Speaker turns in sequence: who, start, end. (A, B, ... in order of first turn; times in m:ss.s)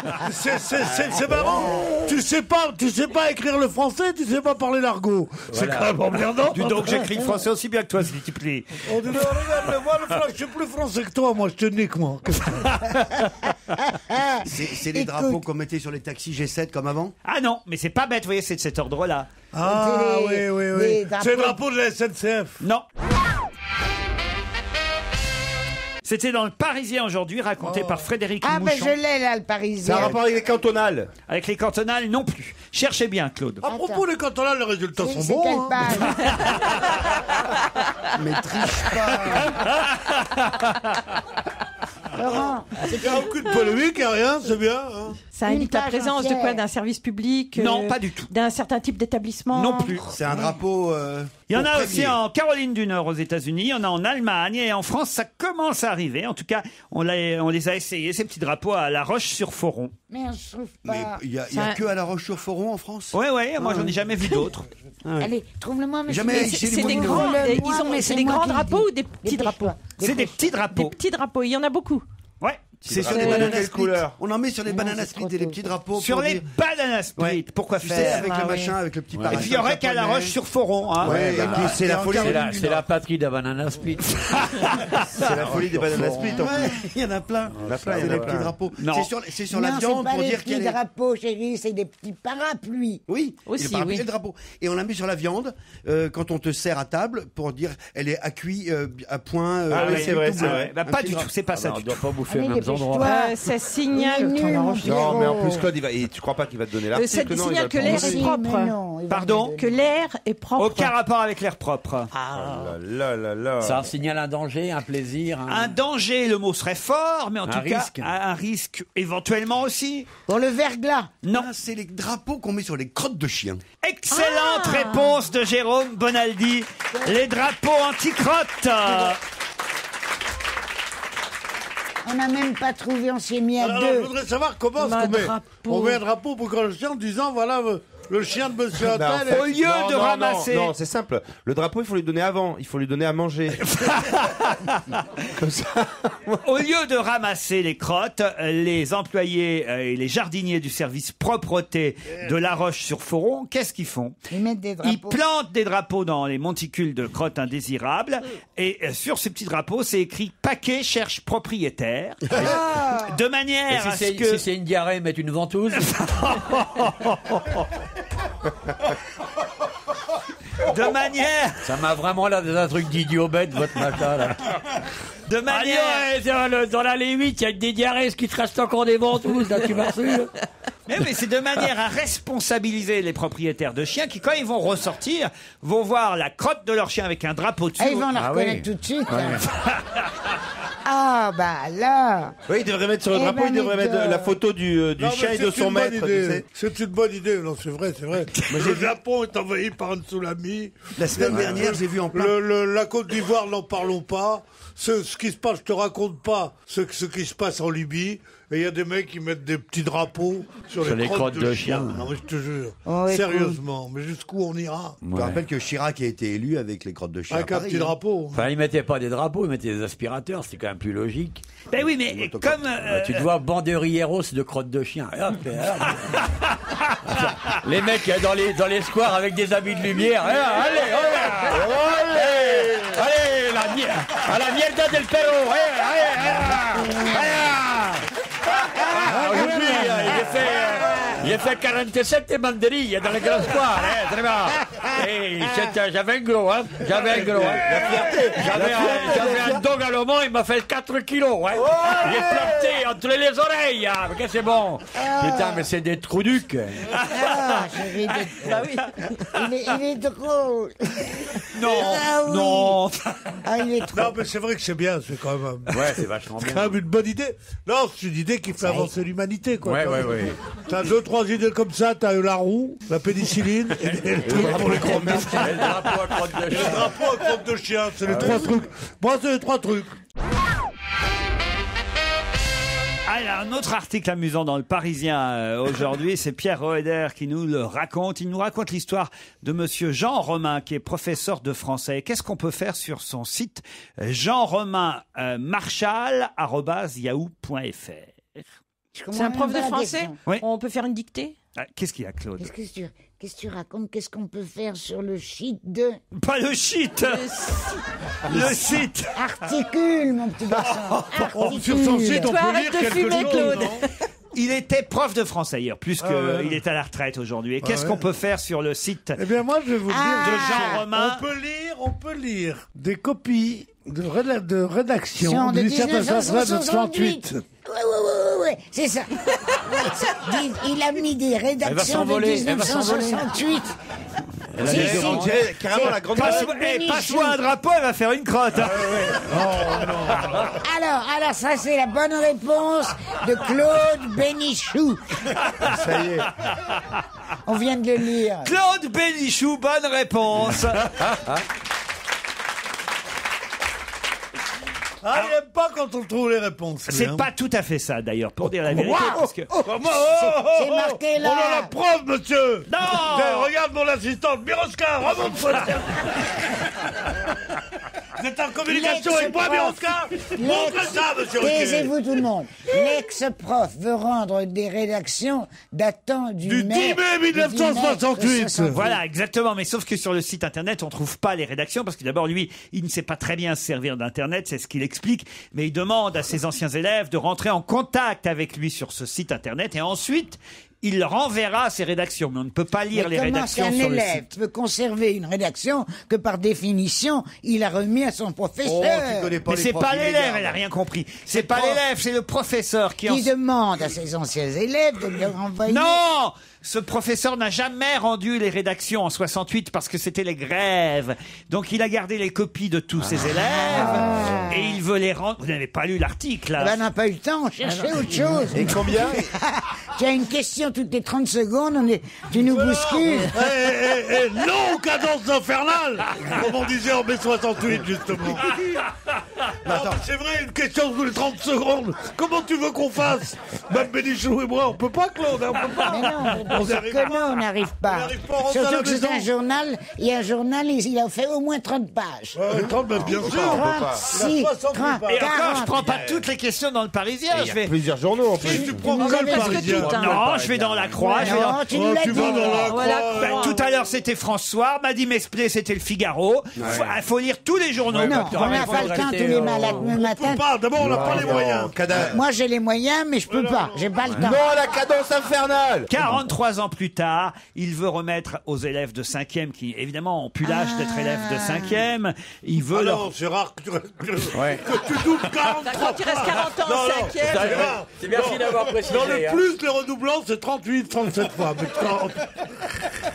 0:00.2-0:07.3 A
0:01.2-0:01.6 B
0:05.5-0:05.9 B
0:06.5-0:09.4 C
0:08.8-0:12.7 A
0:12.5-0:13.3 C
0:13.8-0:15.4 D
0:14.4-0:17.1 E
0:17.2-0:19.3 C
0:19.5-0:22.6 A
0:19.6-0:21.6 D
0:22.6-0:22.8 C
0:26.0-0:29.0 C
0:27.6-0:28.1 A
0:28.4-0:30.2 D
0:29.8-0:31.1 F
0:31.3-0:33.6 C
0:33.6-0:36.2 A
0:33.6-0:34.0 D
0:35.0-0:36.4 D
0:38.2-0:39.6 E
0:39.6-0:40.8 C
0:42.1-0:43.3 D
0:42.9-0:45.2 A
0:43.5-0:43.8 G
0:45.2-0:50.0 G
0:45.4-0:46.6 D
0:47.6-0:48.3 C
0:49.5-0:50.1 C
0:50.1-0:52.2 E
0:51.5-0:59.9 C
1:00.1-1:01.2 D
1:00.8-1:04.5 E
1:01.5-1:01.8 G
1:03.1-1:04.7 C
1:05.0-1:05.3 E
1:05.2-1:10.4 D
1:06.1-1:07.6 E
1:06.3-1:09.8 G
1:10.0-1:10.9 C
1:10.7-1:12.0 G
1:12.4-1:12.7 C
1:12.8-1:16.4 E
1:12.9-1:14.2 F
1:13.1-1:13.6 G
1:14.6-1:15.6 D
1:16.0-1:18.3 C
1:17.2-1:20.4 E
1:18.0-1:18.8 G
1:19.1-1:19.6 B
1:19.3-1:21.2 C
1:21.0-1:22.7 F
1:21.0-1:22.9 E
1:21.0-1:26.6 B
1:24.6-1:25.0 C
1:25.2-1:26.7 F
1:25.2-1:30.8 E
1:27.5-1:28.4 B
1:27.6-1:28.6 F
1:28.8-1:29.1 C
1:29.5-1:33.0 D
1:33.1-1:41.3 E
1:33.4-1:34.1 G
1:39.7-1:40.8 F
1:39.7-1:42.1 C
1:41.5-1:43.0 B
1:42.3-1:45.6 D
1:42.7-1:43.0 C
1:43.0-1:45.6 G
1:44.8-1:48.3 F
1:46.9-1:48.8 G
1:47.8-1:49.7 D
1:49.1-1:49.5 C
1:49.5-1:50.9 G
1:50.6-1:52.1 C
1:52.1-1:52.8 B
1:52.3-1:53.8 F
1:53.6-1:55.7 B
1:55.5-2:00.1 C
1:57.4-1:58.1 B
2:00.3-2:01.1 D
2:01.2-2:01.5 C
2:01.3-2:03.6 E
2:03.8-2:09.2 C
2:04.1-2:05.2 G
2:12.0-2:14.1 D
2:13.6-2:19.5 A
2:14.8-2:16.0 G
2:18.8-2:24.1 F
2:19.3-2:20.7 C
2:23.7-2:25.0 C
2:25.4-2:26.4 F
2:26.4-2:34.2 C
2:34.3-2:35.2 D
2:34.8-2:42.5 C
2:42.4-2:43.2 D
2:43.1-2:44.4 C
2:43.7-2:45.9 B
2:45.8-2:47.6 C
2:50.6-2:51.6 C
2:51.6-2:54.5 B
2:55.3-2:56.1 C
2:55.5-3:00.3 B
3:00.9-3:08.1 C
3:07.8-3:09.4 D
3:08.1-3:09.4 B
3:09.6-3:10.0 C
3:10.8-3:12.4 D
3:12.5-3:16.4 F
3:13.1-3:14.4 D
3:15.0-3:35.0 A
3:18.3-3:18.7 C
3:21.0-3:22.4 E
3:21.3-3:21.7 B
3:30.8-3:32.0 B
3:32.8-3:33.6 D
3:35.0-3:35.5 B
3:35.1-3:38.0 E
3:37.3-3:38.5 A
3:38.3-3:41.4 B
3:41.7-3:43.3 C
3:42.0-3:42.7 E
3:42.8-3:46.2 B
3:46.7-3:47.6 C
3:47.0-3:58.0 B
3:51.6-3:52.9 F
3:58.8-4:16.9 B
3:58.8-4:00.2 D
3:59.2-4:00.2 A
4:07.1-4:09.6 F
4:11.6-4:12.7 F
4:15.0-4:15.7 D
4:16.9-4:17.6 C
4:17.1-4:18.7 D
4:18.4-4:19.1 G
4:19.3-4:22.8 D
4:21.5-4:23.4 C
4:23.4-4:24.2 D
4:23.9-4:35.6 A
4:25.7-4:26.8 B
4:28.6-4:28.9 D
4:29.6-4:30.4 B
4:33.8-4:37.1 B
4:34.2-4:35.6 F
4:36.5-4:39.9 A
4:38.0-4:38.6 B
4:43.0-4:58.4 C
4:58.9-5:00.2 D
4:59.1-5:01.4 G
5:01.6-5:02.5 C
5:02.4-5:06.0 D
5:06.1-5:07.2 C
5:07.0-5:07.8 G
5:08.2-5:09.2 C
5:09.1-5:12.4 D
5:10.7-5:13.8 A
5:12.2-5:13.9 G
5:14.3-5:19.2 C
5:16.0-5:16.6 A
5:17.6-5:18.0 A
5:19.2-5:27.4 A
5:19.9-5:20.8 D
5:20.2-5:21.2 C
5:25.2-5:33.8 D
5:31.6-5:33.2 B
5:34.5-5:35.5 B
5:34.6-5:37.4 D
5:34.6-5:36.5 F
5:35.7-5:39.2 C
5:38.7-5:39.2 B
5:39.1-5:40.5 A
5:40.6-5:45.2 D
5:45.3-5:45.7 C
5:45.6-5:46.3 F
5:46.4-5:47.0 C
5:47.4-5:48.6 D
5:48.4-5:51.0 C
5:51.1-5:51.4 B
5:55.0-5:57.2 A
5:56.9-5:59.5 C
5:58.7-6:01.7 D
5:59.6-6:06.2 A
6:02.7-6:03.5 C
6:08.2-6:12.0 A
6:08.7-6:19.0 D
6:16.4-6:18.8 A
6:18.7-6:34.2 C
6:32.9-6:39.3 D
6:38.6-6:40.6 E
6:39.5-6:43.3 C
6:41.4-6:41.7 E
6:43.0-6:46.0 D
6:45.7-6:56.8 C
6:53.6-6:54.8 D
6:56.6-7:03.4 D
6:58.5-6:59.3 F
7:02.4-7:08.6 A
7:08.4-7:08.8 C
7:09.6-7:10.0 E
7:09.6-7:19.3 A
7:15.7-7:17.1 C
7:15.8-7:22.4 D
7:22.3-7:25.6 A
7:22.5-7:24.1 F
7:23.3-7:26.0 D
7:25.1-7:27.7 C
7:25.7-7:26.3 F
7:27.3-7:28.8 F
7:28.4-7:29.7 D
7:28.4-7:30.0 A
7:28.8-7:30.3 G
7:29.6-7:31.2 B
7:29.9-7:31.6 C
7:30.9-7:31.5 G
7:31.2-7:32.9 D
7:31.6-7:33.6 A
7:32.1-7:33.6 G
7:32.8-7:39.0 C
7:36.6-7:36.9 F
7:36.6-7:36.9 B
7:37.9-7:39.9 B
7:38.0-7:40.4 D
7:39.7-7:41.9 A
7:40.8-7:42.2 F
7:42.0-7:44.4 D
7:43.3-7:44.0 A
7:44.1-7:45.9 F
7:45.9-7:53.0 C
7:50.4-7:51.8 D
7:52.7-8:02.5 A
7:54.3-7:54.8 B
7:55.6-7:57.8 G
7:57.2-7:59.4 B